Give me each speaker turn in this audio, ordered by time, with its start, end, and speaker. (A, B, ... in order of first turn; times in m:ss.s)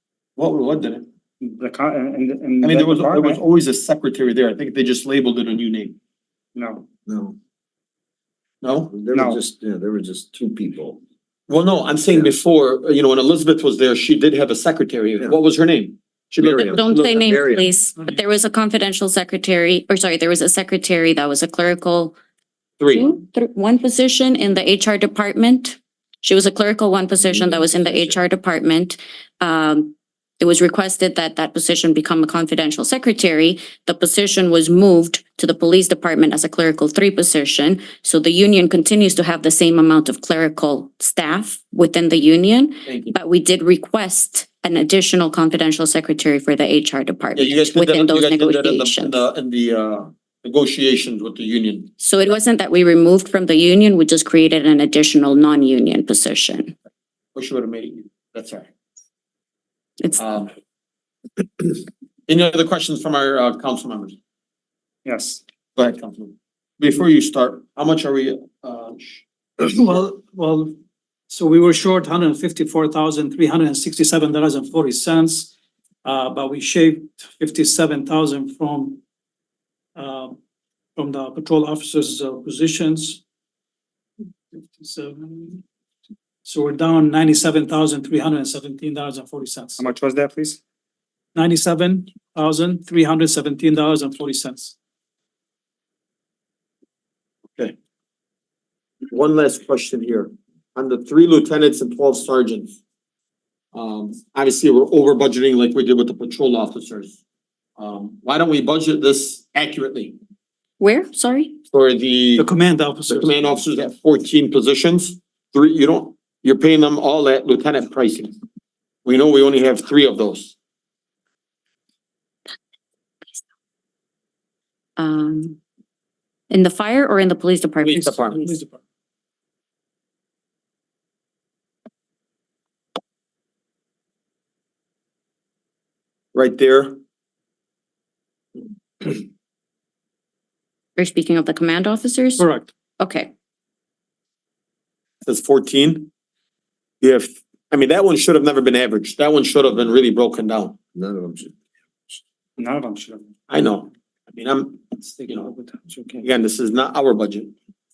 0:00.4-0:01.1 A
0:01.4-0:03.4 B
0:02.6-0:06.0 A
0:06.6-0:06.9 B
0:07.0-0:07.4 C
0:08.6-0:08.9 A
0:08.9-0:11.0 C
0:09.1-0:09.4 B
0:11.5-0:17.3 A
0:12.1-0:12.3 C
0:16.4-0:17.7 C
0:16.7-0:22.2 D
0:22.8-0:23.1 A
0:22.9-0:49.2 D
0:27.3-0:28.1 C
0:42.8-0:43.1 A
0:47.4-0:51.9 A
0:52.0-0:56.7 D
0:57.3-0:58.7 A
1:00.2-1:00.5 A
1:02.3-1:04.1 A
1:05.0-1:05.4 B
1:05.8-1:09.2 A
1:09.6-1:10.7 E
1:11.3-1:15.5 E
1:16.0-1:19.0 E
1:20.0-1:20.4 E
1:21.0-1:23.2 E
1:24.8-1:25.6 E
1:26.4-1:29.8 E
1:29.8-1:30.6 B
1:31.3-1:34.7 E
1:39.1-1:42.8 A
1:43.7-1:47.2 A
1:47.8-1:50.1 A
1:50.8-1:51.6 D
1:51.7-1:52.5 A
1:52.4-1:53.4 E
1:53.1-1:58.3 A
1:59.0-2:00.5 A
2:05.0-2:05.6 D
2:06.5-2:08.4 D
2:07.8-2:08.4 A
2:07.9-2:08.8 E
2:16.3-2:17.0 A
2:21.0-2:22.4 D
2:22.4-2:22.7 E
2:23.0-2:23.3 D
2:25.2-2:26.1 A
2:27.0-2:30.8 A
2:30.9-2:31.5 C
2:32.6-2:33.3 B
2:33.5-2:35.5 A
2:35.2-2:36.2 B
2:36.2-2:37.5 A